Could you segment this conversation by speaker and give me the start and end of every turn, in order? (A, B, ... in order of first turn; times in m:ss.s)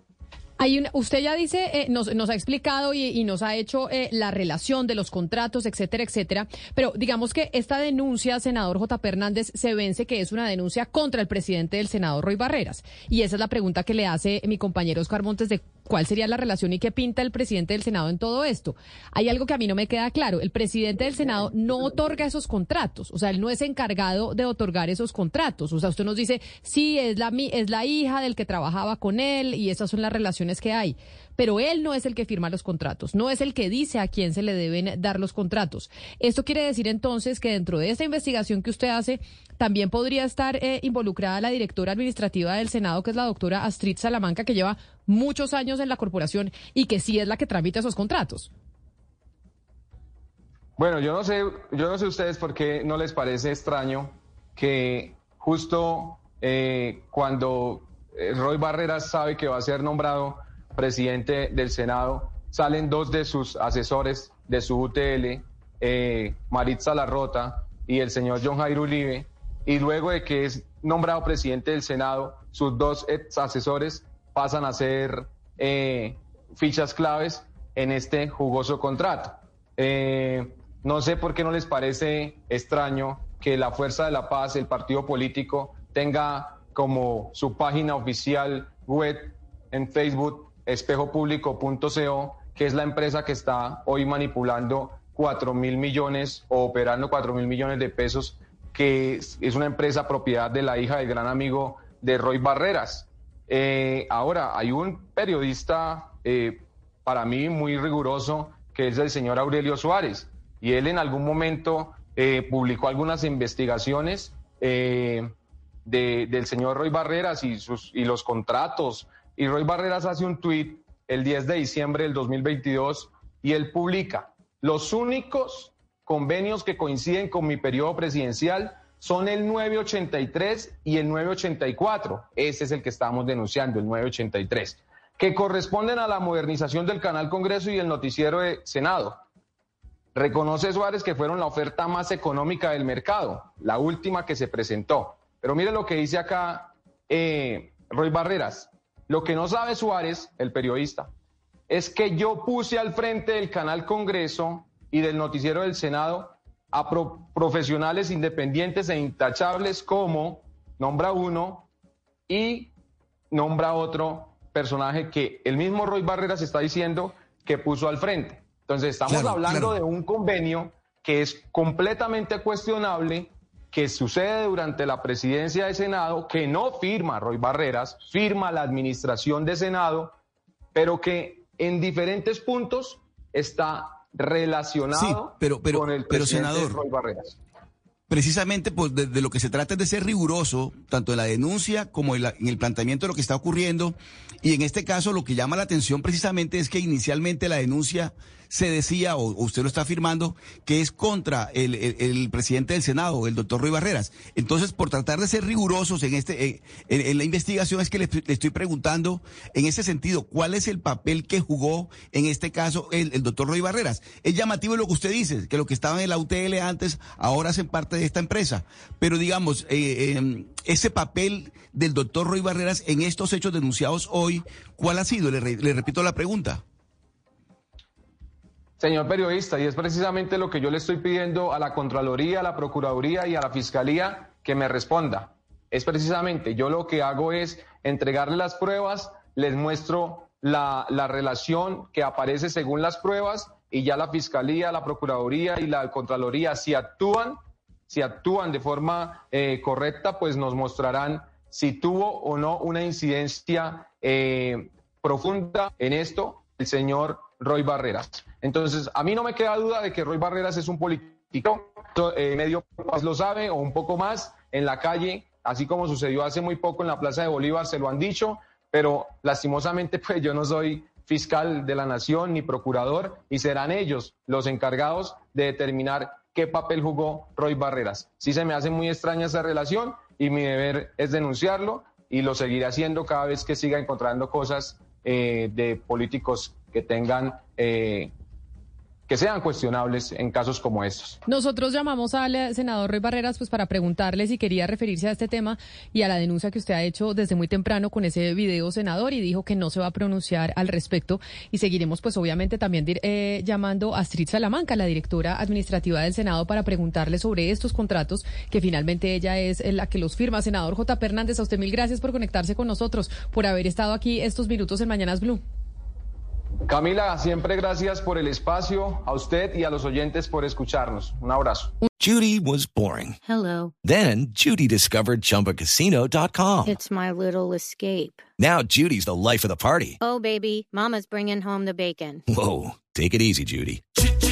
0:00.6-0:48.5 A
0:50.8-1:55.3 B
1:55.8-2:19.2 B
2:20.2-2:31.1 B
2:31.7-2:41.7 B
2:42.3-2:42.7 B
2:43.3-3:00.2 B
2:49.1-2:49.8 C
3:00.8-3:07.4 B
3:04.9-3:06.8 C
3:08.1-3:46.6 C
3:48.8-4:48.1 B
4:49.1-4:51.2 B
4:51.3-5:15.4 A
5:16.7-5:21.7 B
5:22.0-5:23.2 D
5:23.2-5:23.7 E
5:23.8-5:26.8 D
5:26.6-5:28.2 E
5:28.4-5:30.0 D
5:30.0-5:32.2 E
5:32.3-5:33.8 D